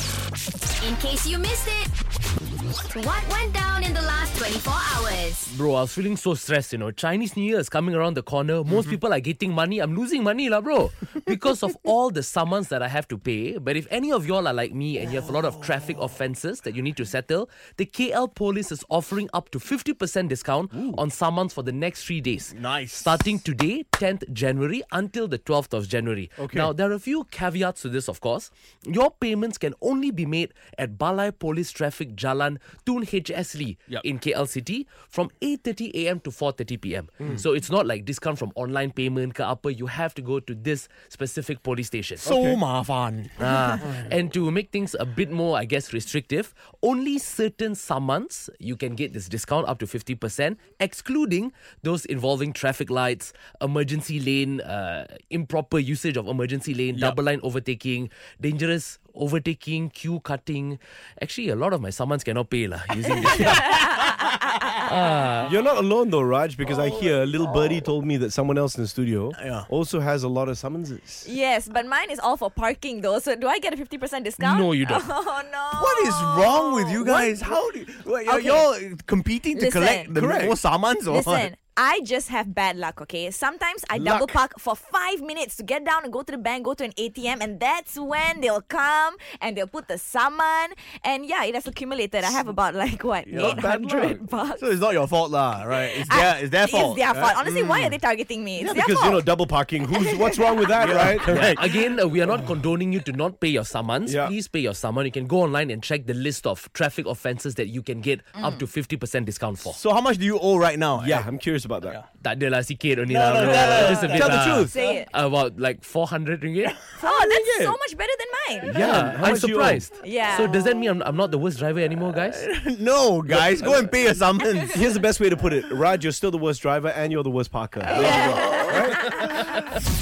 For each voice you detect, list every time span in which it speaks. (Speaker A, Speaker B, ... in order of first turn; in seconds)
Speaker A: 0.8-1.9, 2.9-5.5
Speaker B: 5.5-42.3, 43.4-64.0, 64.8-65.5, 74.4-75.1, 101.2-109.8, 112.2-116.8, 118.7-122.5
Speaker C: 22.5-23.2, 42.2-43.6, 69.4-69.7, 75.8-81.5, 84.0-84.3, 93.3-93.6, 94.6-98.0, 100.8-101.6, 109.7-111.3, 113.1-115.0, 122.2-124.8, 128.0-128.6
Speaker D: 26.4-26.7, 65.4-71.2, 93.3-94.2, 98.6-101.6, 104.1-104.3, 111.0-112.0, 118.6-119.9, 124.7-129.5
Speaker E: 63.2-64.9, 71.2-77.6, 78.2-78.7, 79.5-80.5, 81.1-94.6, 95.8-99.4, 99.9-100.7, 113.9-115.1, 117.0-118.8, 120.0-120.7, 127.9-129.4